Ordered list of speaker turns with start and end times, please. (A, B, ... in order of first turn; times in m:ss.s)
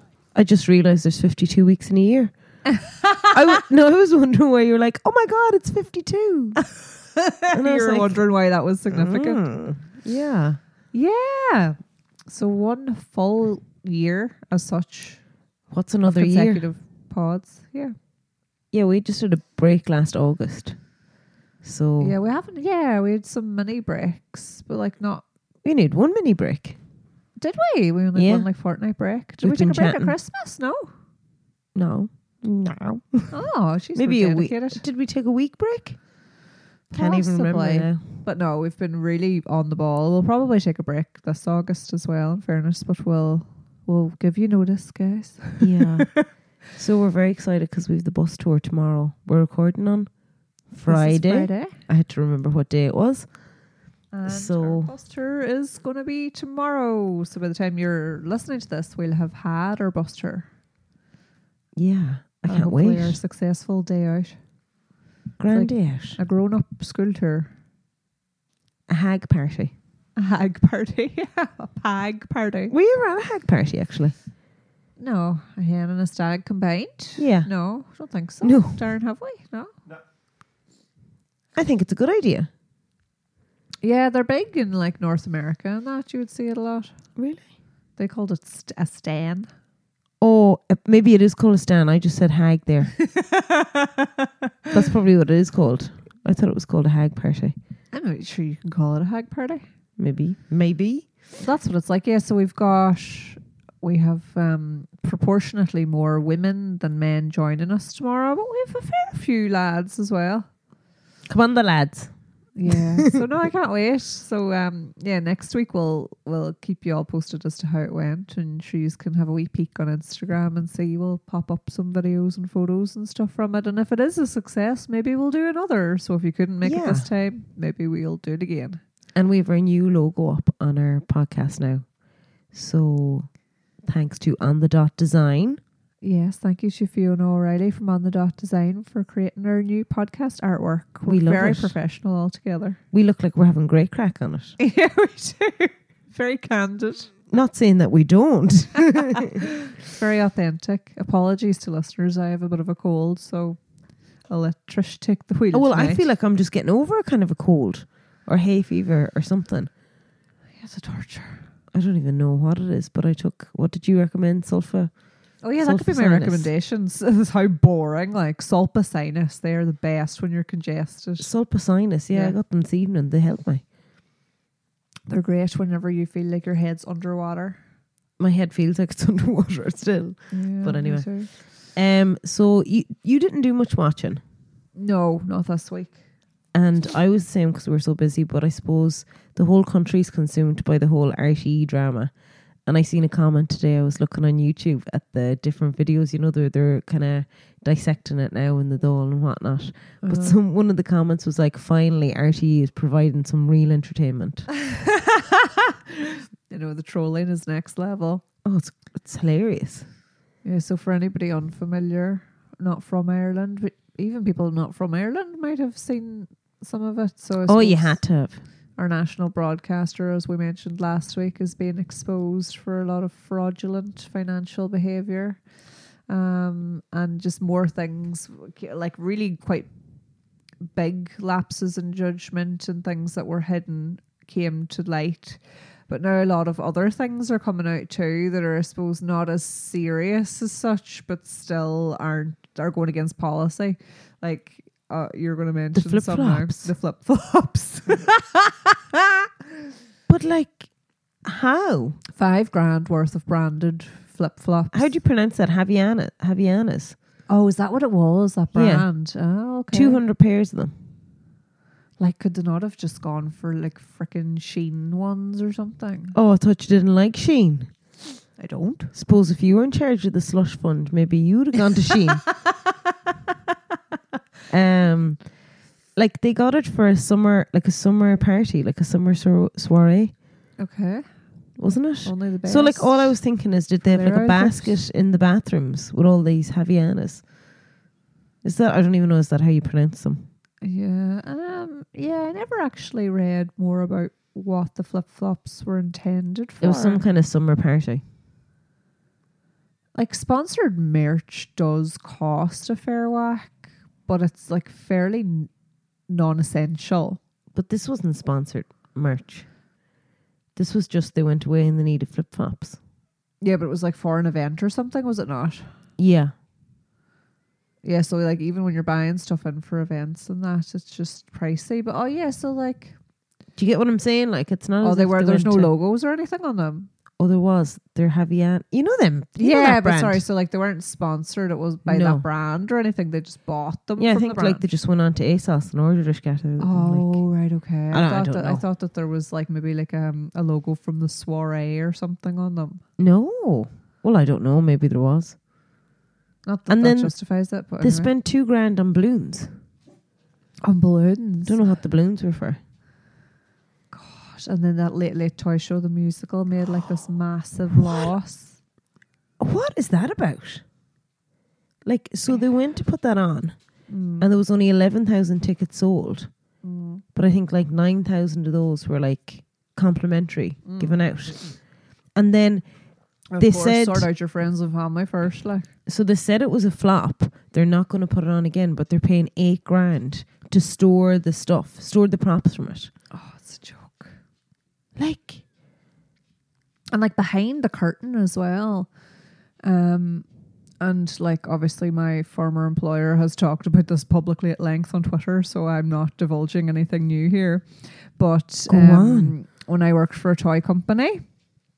0:00.3-0:02.3 A
0:02.7-0:03.4 B
0:03.3-0:06.6 A
0:07.1-0:09.4 B
0:07.5-0:08.2 A
0:08.9-0:10.6 A
0:10.9-0:11.8 B
0:12.3-0:15.2 B
0:15.7-0:16.7 A
0:16.0-0:18.0 B
0:18.7-0:20.8 A
0:21.6-0:22.2 A
0:22.0-0:25.2 B
0:25.6-0:26.8 A
0:27.4-0:30.9 B
0:28.2-0:28.5 A
0:29.4-0:30.2 A
0:31.8-0:33.4 A
0:33.3-0:34.8 B
0:34.0-0:36.0 A
0:36.9-0:46.3 B
0:36.9-0:38.0 A
0:45.6-0:50.1 A
0:50.7-0:53.3 A
0:50.9-0:51.8 B
0:54.1-1:00.5 B
0:54.3-0:54.9 A
1:01.8-1:03.2 A
1:02.5-1:04.4 B
1:05.4-1:06.2 A
1:05.5-1:07.5 B
1:08.9-1:09.7 A
1:10.2-1:12.7 B
1:12.7-1:14.2 A
1:15.0-1:19.7 B
1:17.2-1:17.5 A
1:18.4-1:18.8 A
1:21.6-1:22.5 A
1:23.8-1:26.9 B
1:27.2-1:27.5 A
1:28.0-1:29.5 B
1:30.2-1:33.0 A
1:33.0-1:34.3 B
1:34.7-1:37.6 A
1:37.9-1:39.6 B
1:40.0-1:41.1 A
1:41.4-1:50.5 B
1:51.3-1:52.1 A
1:52.6-2:08.8 B
1:52.7-1:53.0 A
2:06.6-2:07.1 A
2:09.2-2:11.9 A
2:12.5-2:13.3 A
2:13.8-2:15.6 A
2:16.0-2:22.8 B
2:21.1-2:21.8 A
2:22.9-2:24.6 A
2:24.6-2:27.1 B
2:27.3-2:29.4 A
2:29.0-2:33.6 B
2:34.2-2:36.0 B
2:35.5-2:39.7 A
2:40.6-2:41.4 B
2:41.7-2:44.9 A
2:45.4-2:51.3 B
2:45.6-2:46.5 A
2:51.2-2:53.6 A
2:52.1-2:52.4 B
2:55.1-2:57.6 B
2:58.2-3:04.2 A
3:00.3-3:01.3 B
3:04.8-3:06.0 B
3:06.5-3:12.1 A
3:12.7-3:24.5 A
3:20.0-3:20.4 B
3:24.7-3:28.2 B
3:28.4-3:29.9 A
3:30.4-3:38.0 B
3:37.5-3:38.4 A
3:38.8-3:45.4 B
3:46.1-3:49.7 B
3:50.7-4:09.2 B
4:05.7-4:06.7 A
4:10.1-4:10.7 A
4:11.2-4:12.0 A
4:12.2-4:14.9 B
4:14.7-4:17.0 A
4:17.3-4:20.0 B
4:18.5-4:18.9 A
4:19.7-4:20.7 A
4:22.0-4:26.2 B
4:26.1-4:27.7 A
4:28.4-4:28.9 B
4:28.9-4:32.3 A
4:34.5-4:35.3 A
4:36.0-4:40.1 A
4:40.6-4:41.0 B
4:41.6-4:47.2 A
4:42.0-4:43.2 B
4:43.8-4:44.8 B
4:48.4-4:50.3 A
4:50.6-4:57.0 B
4:56.6-4:58.0 A
5:00.0-5:05.5 B
5:06.1-5:07.2 B
5:07.5-5:09.5 A
5:10.6-5:12.8 A
5:13.4-5:15.7 B
5:16.0-5:16.3 A
5:17.8-5:23.0 B
5:23.6-5:25.7 A
5:24.8-5:26.9 B
5:27.2-5:30.2 A
5:29.4-5:34.6 B
5:31.9-5:32.3 A
5:34.0-5:37.2 A
5:36.6-5:42.8 B
5:37.9-5:38.6 A
5:43.0-5:45.4 A
5:46.4-5:48.1 B
5:46.7-5:47.2 A
5:47.8-5:49.5 A
5:50.6-5:51.6 B
5:51.5-5:52.6 A
5:53.9-5:58.6 B
5:59.4-6:00.6 A
6:01.8-6:03.6 A
6:03.9-6:04.3 B
6:04.2-6:06.3 A
6:06.6-6:07.0 B
6:07.2-6:11.6 A
6:10.6-6:11.0 B
6:12.2-6:12.6 A
6:13.3-6:15.7 B
6:13.4-6:14.1 A
6:15.9-6:22.9 A
6:23.1-6:24.1 B
6:25.0-6:25.4 A
6:26.9-6:28.9 B
6:29.6-6:30.3 B
6:30.8-6:41.2 B
6:38.7-6:39.4 A